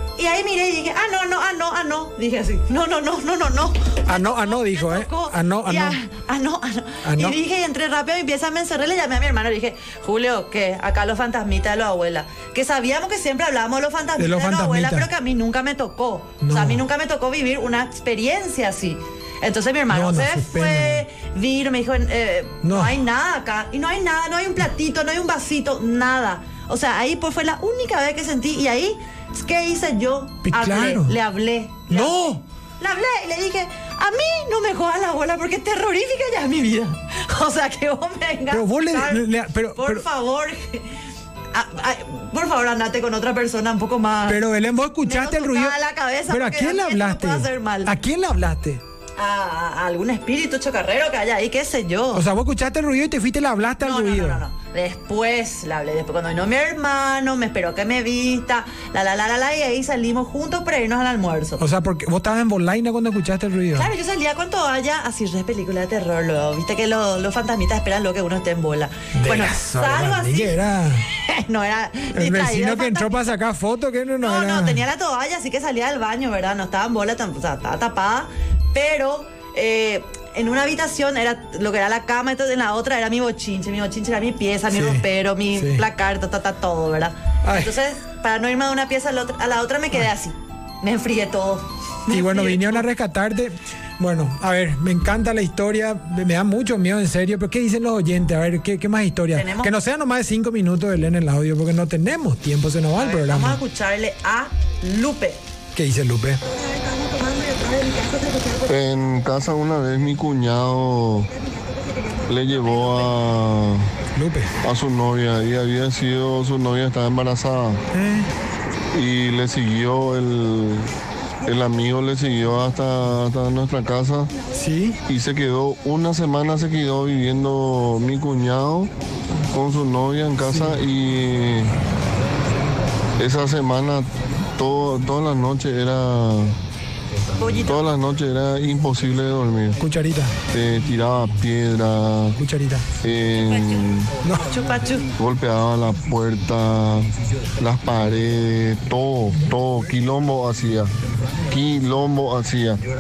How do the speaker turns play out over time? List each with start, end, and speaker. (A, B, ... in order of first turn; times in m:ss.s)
0:00.2-0:41.0 A
0:04.1-0:06.0 B
0:07.0-0:07.4 B
0:14.2-0:15.1 B
0:16.4-0:16.8 B
0:19.9-0:21.0 B
0:22.6-0:23.0 B
0:30.4-0:31.2 B
0:31.9-0:32.4 B
0:38.5-0:40.0 B
0:41.5-0:44.4 A
0:44.3-0:45.8 B
0:45.0-0:48.0 A
0:46.3-0:48.8 B
0:49.2-0:52.2 A
0:52.1-0:54.4 B
0:53.8-1:01.6 A
1:01.6-1:03.9 B
1:03.7-1:13.4 A
1:09.1-1:11.1 B
1:12.1-1:14.8 B
1:14.2-1:32.9 A
1:24.7-1:25.8 B
1:27.4-1:27.7 B
1:32.1-1:43.6 B
1:39.3-1:39.8 A
1:43.0-1:45.4 A
1:45.8-1:46.4 B
1:46.5-1:48.8 A
1:48.7-1:51.3 C
1:52.3-1:53.9 C
1:54.2-1:54.5 B
1:54.6-1:57.8 C
1:57.9-1:58.3 B
1:58.9-2:00.9 C
2:01.5-2:04.4 C
2:04.5-2:05.0 B
2:05.1-2:08.9 C
2:09.5-2:11.7 C
2:10.5-2:10.8 B
2:13.2-2:16.6 C
2:17.4-2:17.8 A
2:17.6-2:19.8 C
2:19.8-2:20.4 B
2:20.5-2:22.4 C
2:22.4-2:22.9 B
2:23.0-2:24.2 C
2:24.2-2:24.5 B
2:24.5-2:25.1 A
2:25.2-2:32.8 C